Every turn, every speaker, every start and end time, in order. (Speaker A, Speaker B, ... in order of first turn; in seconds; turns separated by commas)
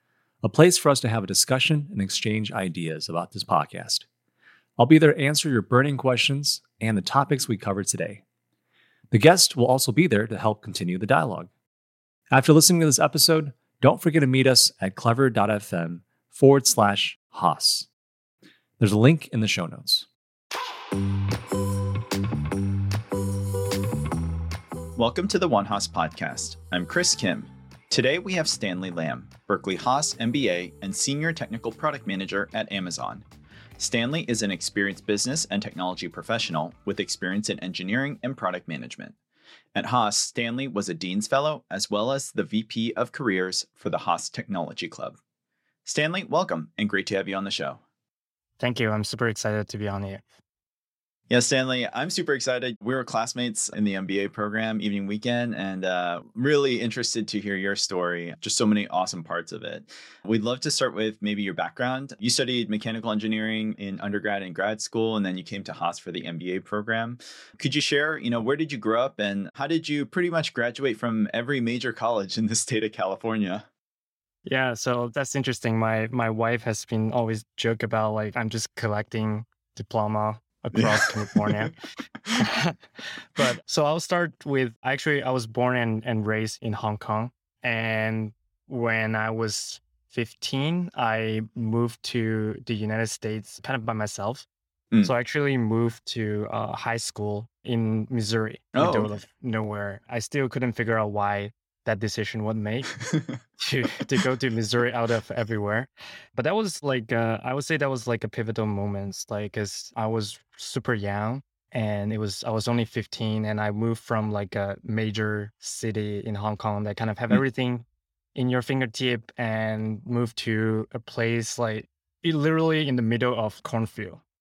Speaker A: 0.4-4.0, Speaker A: 4.8-8.2, Speaker A: 9.1-11.5, Speaker A: 12.3-17.9, Speaker A: 18.8-20.1, Speaker B: 24.9-33.2, Speaker B: 33.8-39.1, Speaker B: 39.7-45.2, Speaker B: 45.9-47.8, Speaker C: 48.6-50.2, Speaker B: 51.3-73.6, Speaker C: 74.5-81.7, Speaker B: 80.8-81.7, Speaker C: 82.3-82.8, Speaker C: 83.3-94.5, Speaker C: 95.0-103.0, Speaker B: 98.7-99.1, Speaker B: 103.0-103.4, Speaker C: 103.6-124.2